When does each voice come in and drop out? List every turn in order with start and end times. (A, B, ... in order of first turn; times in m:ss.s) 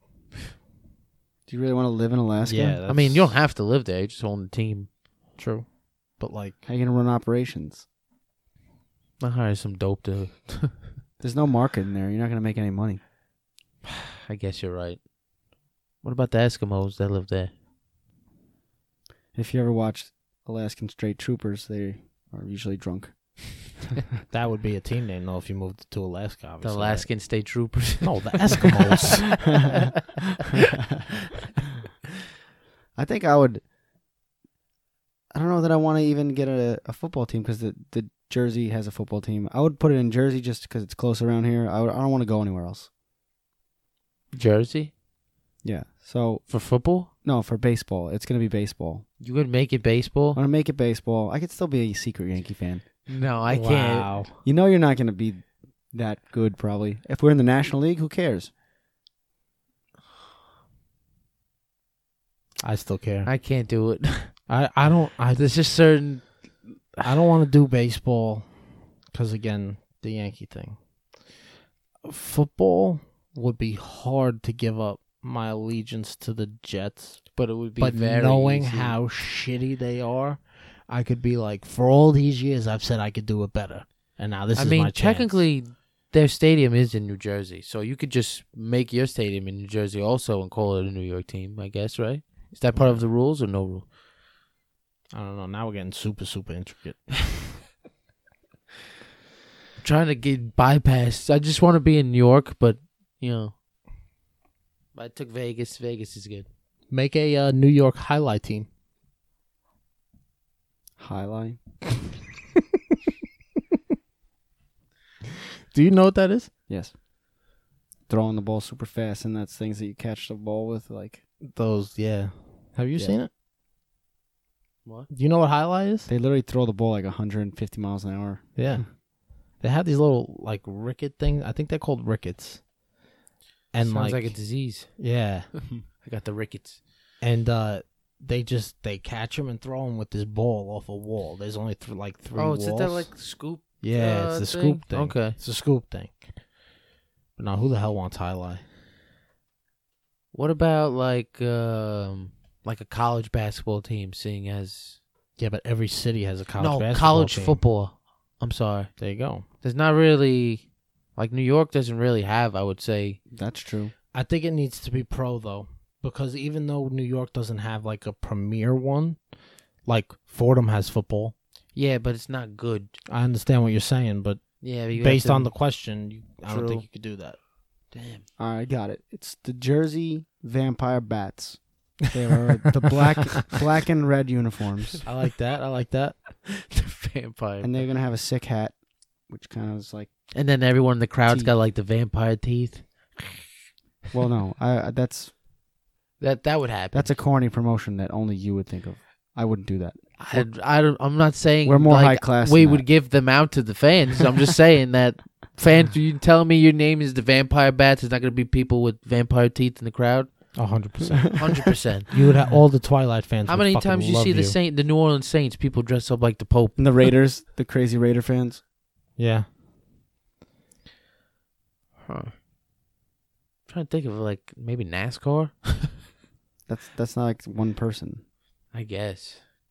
0:01.5-0:02.8 A
0:02.4-0:03.3 B
0:02.9-0:04.9 C
0:05.4-0:06.6 B
0:06.6-0:07.8 A
0:09.2-0:10.9 C
0:11.2-0:13.0 A
0:14.2-0:15.0 C
0:16.0-0:17.5 C
0:19.3-0:23.7 A
0:24.3-0:27.1 B
0:26.6-0:30.2 C
0:28.0-0:29.3 B
0:33.0-0:33.6 A
0:35.3-0:42.9 A
0:44.3-0:44.9 C
0:45.6-0:46.5 A
0:46.5-0:47.1 C
0:47.2-0:49.0 A
0:49.2-0:50.4 C
0:50.3-0:52.8 A
0:53.1-0:54.1 C
0:53.5-0:54.4 B
0:54.4-0:58.5 A
1:02.6-1:03.3 B
1:03.2-1:04.5 C
1:04.5-1:05.4 B
1:05.3-1:07.1 C
1:07.0-1:08.6 B
1:09.1-1:10.8 B
1:12.0-1:25.4 B
1:17.4-1:19.0 C
1:24.5-1:33.8 C
1:32.7-1:33.0 B
1:35.1-1:37.2 B
1:39.8-1:43.5 C
1:44.9-1:46.4 C
1:46.9-1:48.7 B
1:51.0-1:51.6 A
1:55.7-1:56.5 B
1:56.7-1:56.9 A
1:58.1-2:01.2 A
2:01.5-2:03.3 B
2:05.1-2:06.1 B
2:06.1-2:08.6 A
2:08.6-2:09.0 B
2:09.6-2:12.6 B
2:13.7-2:15.5 B
2:13.8-2:15.0 C
2:15.8-2:16.8 C
2:17.2-2:23.1 B
2:22.3-2:25.4 C
2:23.8-2:26.2 B
2:27.4-2:28.6 B
2:30.3-2:35.0 C
2:35.4-2:37.6 B
2:36.6-2:39.0 C
2:39.0-2:39.4 B
2:39.6-2:43.2 C
2:43.3-2:43.9 A
2:44.1-2:49.2 B
2:49.8-2:51.3 B
2:51.7-2:53.0 C
2:53.1-2:54.4 B
2:54.6-2:55.5 C
2:54.9-2:57.4 B
2:56.5-2:56.8 C
2:57.9-2:58.2 C
2:58.4-3:05.0 A
3:05.0-3:06.2 B
3:06.4-3:07.8 C
3:07.6-3:08.8 A
3:09.3-3:10.1 A
3:10.3-3:12.9 C
3:11.3-3:11.5 A
3:14.1-3:15.3 A
3:16.2-3:17.2 C
3:16.9-3:20.5 A
3:20.2-3:30.6 C
3:21.6-3:22.8 A
3:30.5-3:31.4 B
3:31.4-3:32.2 C
3:32.1-3:34.6 B
3:33.4-3:37.0 C
3:36.8-3:38.6 A
3:39.2-3:39.5 B
3:42.0-3:42.3 C
3:43.7-3:46.0 C
3:46.7-3:48.2 A
3:48.7-3:49.4 C